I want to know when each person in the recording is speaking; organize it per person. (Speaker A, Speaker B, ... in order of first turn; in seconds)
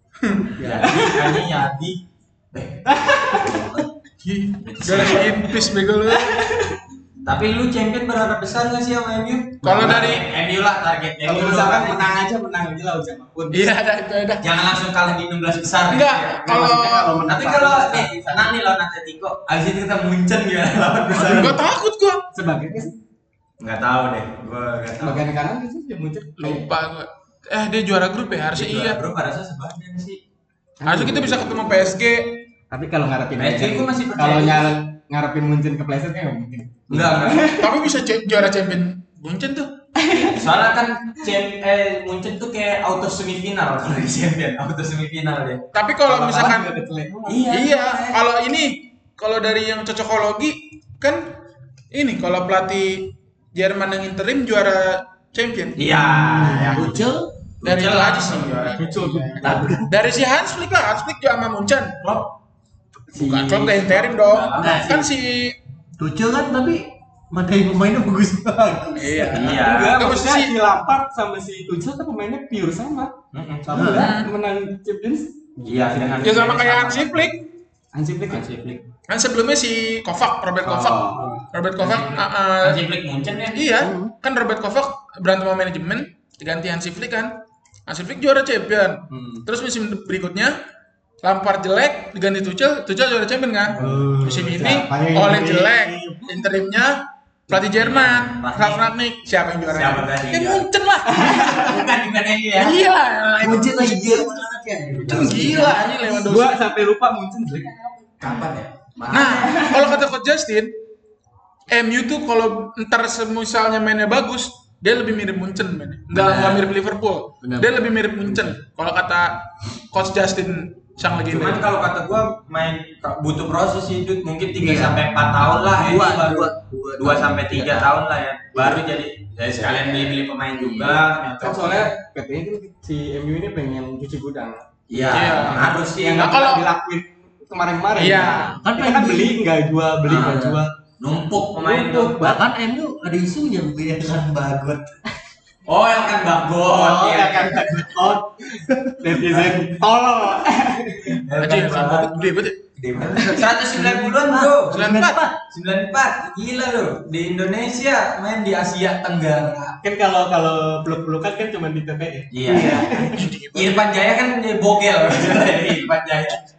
Speaker A: 0.2-0.5, 4.2-6.5, 9.6-10.2, 13.5-14.4, 15.9-17.2, 21.2-22.2, 26.4-29.0, 30.9-32.4, 37.6-39.7, 45.7-46.8, 47.5-51.3, 51.9-55.8, 57.6-62.0, 63.1-65.6, 69.0-70.5, 74.0-74.3, 76.2-77.4, 79.1-82.8, 83.5-87.3, 87.9-90.5, 91.2-101.8, 102.6-104.3, 105.1-106.5, 109.1-110.7, 111.7-119.4, 119.9-121.7, 135.1-136.7, 137.9-138.6, 151.4-152.6, 154.7-155.2, 163.1-163.9
Speaker B: 0.6-0.9, 3.4-3.8, 56.3-57.3, 59.4-59.9, 64.6-65.0, 66.0-69.5, 73.7-74.1, 83.8-84.1, 103.4-106.2, 116.1-116.7, 117.4-117.8, 124.6-128.0, 130.6-131.0, 138.3-139.4, 140.1-140.6, 142.2-144.9, 153.0-155.3, 162.5-163.0
Speaker C: 0.6-2.0, 2.5-2.9, 4.6-5.7, 7.2-12.1, 14.4-16.5, 17.3-21.6, 23.6-25.2, 28.5-30.2, 33.4-34.8, 36.9-37.5, 40.2-45.6, 47.3-48.2, 55.8-57.1, 57.6-58.9, 62.0-62.3, 63.1-64.9, 69.3-70.0, 73.3-74.0, 75.7-77.3, 78.3-78.7, 81.8-83.7, 93.7-94.0, 97.7-98.9, 99.7-100.7, 101.2-102.8, 108.2-109.8, 121.3-131.9, 134.9-136.3, 140.1-142.2, 145.7-148.0, 149.2-149.5, 151.1-154.8, 155.5-159.8, 162.3-163.0, 163.5-166.4
Speaker D: 0.8-1.5, 2.9-3.7, 6.1-6.8, 11.2-13.7, 16.4-18.6, 21.1-21.6, 22.3-22.9, 25.0-26.7, 30.8-32.0, 32.7-37.9, 40.0-40.5, 46.1-47.6, 56.2-57.0, 58.8-59.9, 69.5-73.1, 73.7-76.5, 77.9-78.8, 80.6-82.1, 89.1-89.5, 93.8-96.4, 101.1-101.8, 105.0-108.3, 109.2-110.0, 131.4-140.7, 141.6-142.4, 146.7-151.2, 159.8-163.2